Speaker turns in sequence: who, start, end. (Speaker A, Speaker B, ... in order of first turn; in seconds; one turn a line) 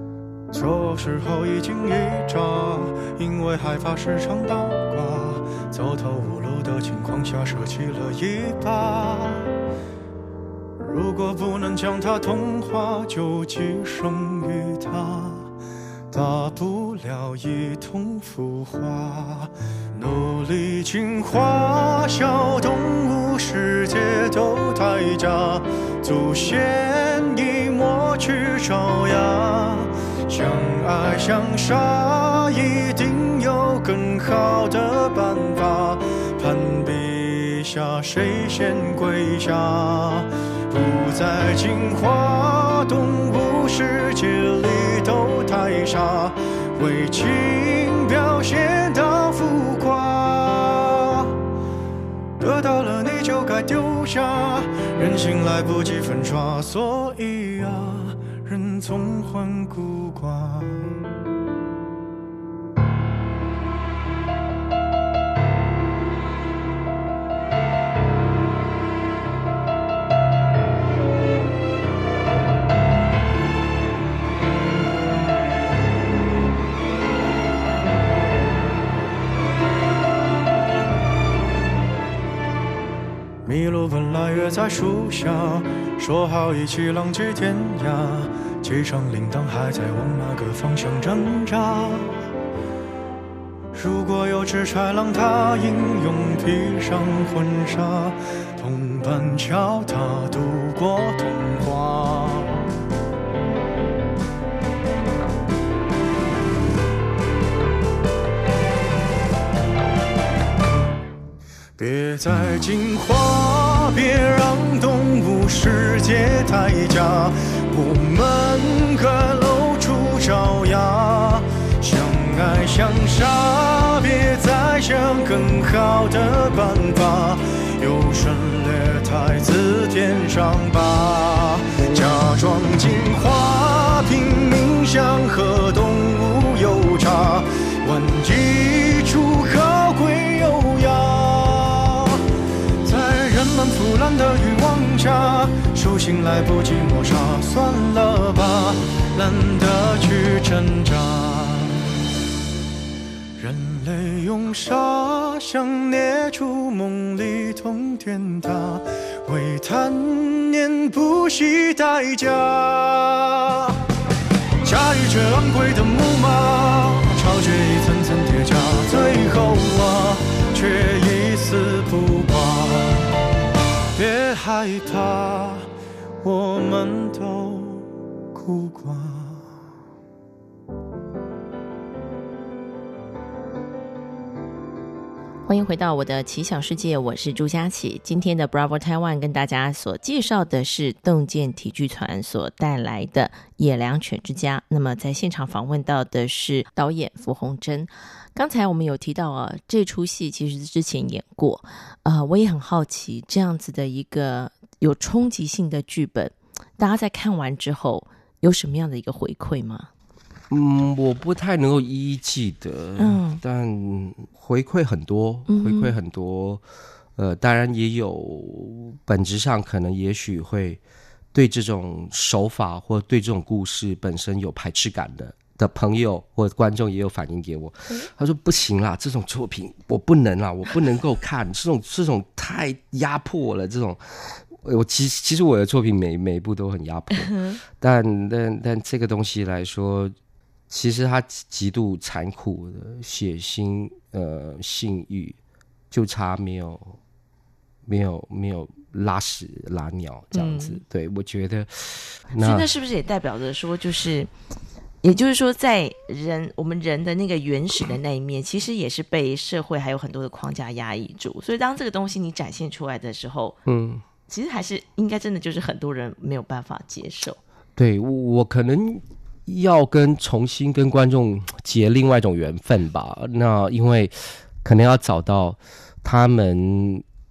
Speaker A: 0.5-9.5
Speaker A: 10.8-15.5
Speaker A: 16.1-51.3
Speaker A: 52.4-61.0
Speaker A: 83.4-92.1
Speaker A: 93.7-102.6
Speaker A: 111.8-142.2
Speaker A: 142.8-151.9
Speaker A: 153.4-163.8
Speaker A: 164.6-173.2
Speaker A: 173.9-175.7
Speaker A: 176.2-179.5
Speaker B: 185.5-209.9
Speaker C: 210.5-216.6
Speaker B: 213.0-213.4
Speaker B: 215.5-215.9
Speaker C: 217.2-220.8
Speaker C: 221.3-240.1
Speaker B: 237.2-237.6
Speaker C: 240.7-245.4
Speaker C: 245.9-246.9
Speaker C: 247.9-252.7
Speaker B: 250.3-250.8
Speaker B: 252.4-254.3
Speaker B: 255.0-263.6
Speaker C: 263.6-264.0
Speaker B: 264.3-267.4
Speaker C: 267.8-277.0